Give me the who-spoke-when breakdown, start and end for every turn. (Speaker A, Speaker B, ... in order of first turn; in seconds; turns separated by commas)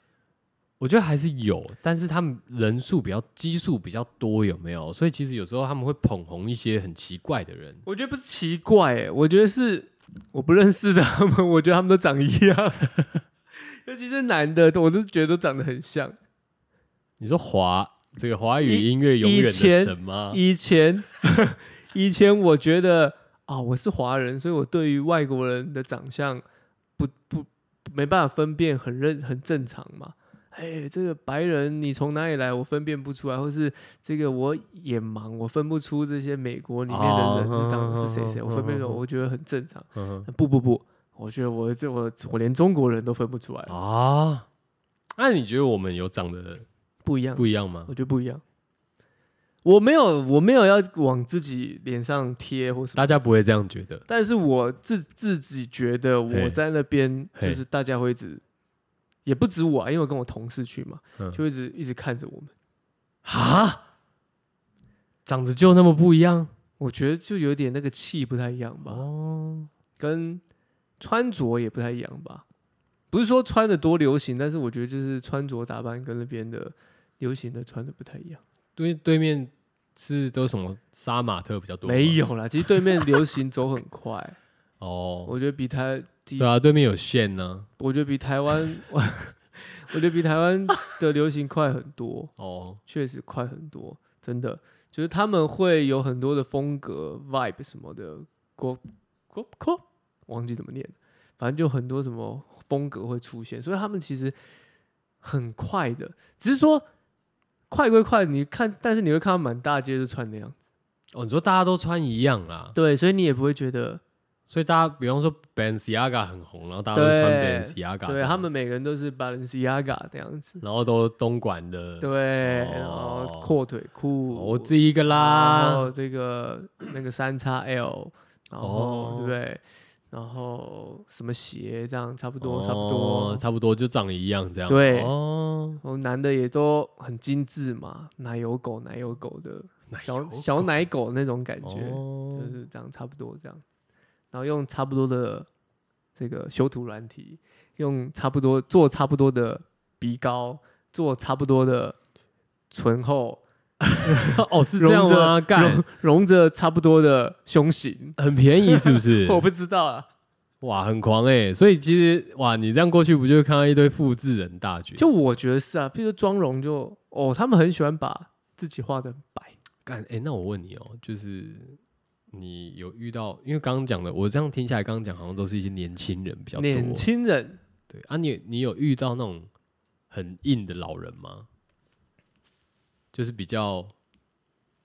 Speaker A: 0.8-7.8, Speaker B: 7.8-12.9, Speaker B: 13.7-16.2, Speaker A: 17.2-20.4, Speaker B: 18.6-26.4, Speaker B: 27.0-43.8, Speaker A: 36.9-39.0, Speaker A: 40.0-40.3, Speaker A: 43.7-44.5, Speaker A: 45.2-46.7, Speaker B: 47.0-48.4, Speaker A: 47.4-47.9, Speaker B: 49.6-53.2, Speaker A: 53.0-54.0, Speaker B: 54.1-58.4, Speaker A: 56.3-56.6, Speaker B: 59.2-62.5, Speaker A: 63.2-63.8, Speaker A: 65.3-66.5, Speaker B: 66.8-69.0, Speaker A: 68.9-69.7, Speaker B: 70.0-70.4, Speaker B: 71.0-72.4, Speaker B: 73.1-78.4, Speaker A: 78.8-83.0, Speaker B: 81.9-84.4, Speaker A: 84.8-85.3, Speaker B: 85.3-86.5, Speaker A: 86.4-87.7, Speaker B: 87.8-92.3, Speaker A: 92.4-92.8, Speaker B: 92.9-104.4, Speaker B: 105.2-106.8, Speaker B: 107.7-110.6, Speaker A: 111.1-112.8, Speaker B: 112.8-114.0, Speaker A: 114.5-118.5, Speaker B: 116.9-120.6, Speaker A: 120.6-123.5, Speaker B: 122.0-133.4, Speaker A: 124.3-125.9, Speaker A: 128.6-129.4, Speaker A: 132.4-135.8, Speaker B: 134.7-135.1, Speaker B: 135.8-143.6, Speaker A: 139.9-140.8, Speaker A: 141.6-142.6, Speaker B: 144.3-145.5, Speaker B: 146.2-152.0, Speaker B: 152.7-153.4, Speaker A: 153.9-155.8, Speaker B: 154.1-160.1, Speaker A: 158.2-159.5, Speaker A: 160.6-165.0, Speaker B: 165.0-169.5, Speaker A: 169.8-171.8, Speaker A: 172.3-177.1, Speaker B: 176.6-177.6, Speaker A: 177.9-179.5, Speaker A: 180.1-181.5, Speaker A: 183.1-183.9